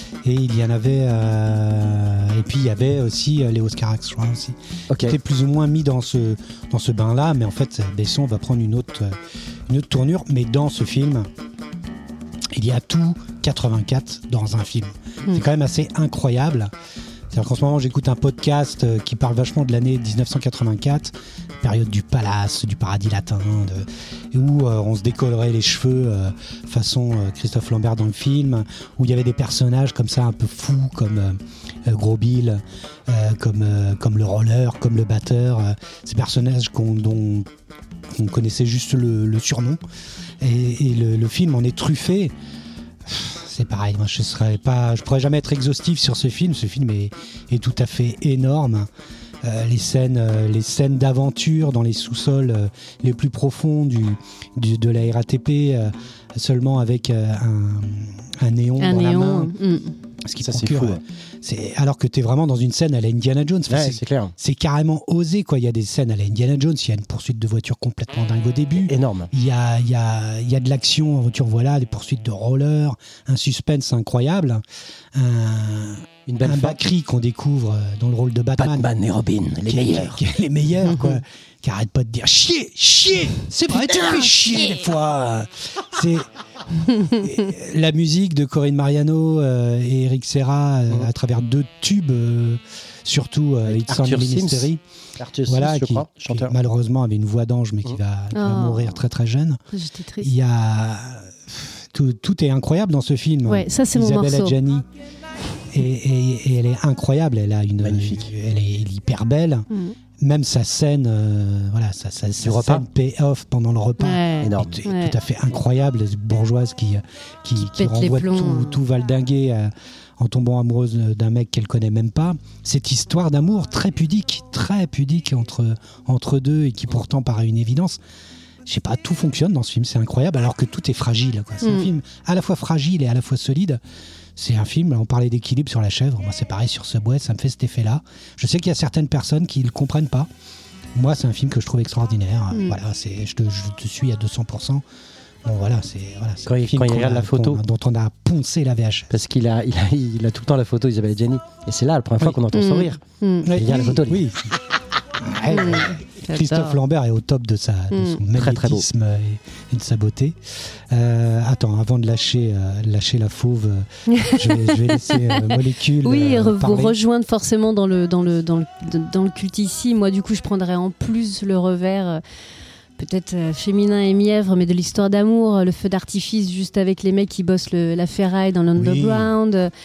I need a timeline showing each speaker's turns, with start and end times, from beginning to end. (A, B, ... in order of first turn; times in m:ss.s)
0:00.2-0:11.3 A
0:04.9-0:05.2 B
0:12.5-0:16.7 A
0:17.3-0:37.5 A
0:38.1-0:39.8 A
0:40.4-0:42.3 A
0:43.0-0:48.9 A
0:49.4-0:59.5 A
0:58.8-1:00.0 C
1:00.2-1:14.6 A
1:00.4-1:01.0 B
1:03.7-1:04.3 B
1:08.8-1:09.3 B
1:15.1-1:18.9 A
1:16.3-1:16.8 B
1:18.6-1:20.2 B
1:19.6-1:26.3 A
1:20.9-1:21.2 C
1:23.7-1:24.8 B
1:26.9-1:34.8 A
1:33.6-1:36.5 B
1:35.4-1:39.6 A
1:38.3-1:39.0 C
1:39.7-1:40.3 C
1:40.2-1:44.8 A
1:43.5-1:44.6 C
1:45.7-1:49.7 A
1:47.8-1:48.3 B
1:49.7-1:50.0 C
1:50.2-2:08.0 A
1:52.4-1:52.8 B
1:54.0-1:55.2 C
1:54.4-1:54.8 B
1:57.6-1:58.8 C
2:08.6-2:13.8 A
2:11.6-2:11.9 C
2:14.4-2:20.3 A
2:20.9-2:24.8 A
2:25.4-2:29.1 A
2:26.4-2:27.6 B
2:29.1-2:33.0 B
2:32.5-2:33.6 C
2:33.4-2:34.6 A
2:33.5-2:34.2 B
2:35.2-2:47.0 A
2:35.5-2:36.8 C
2:37.9-2:38.2 C
2:38.3-2:38.8 B
2:44.1-2:52.2 C
2:53.0-2:59.7 C
2:58.7-2:59.3 A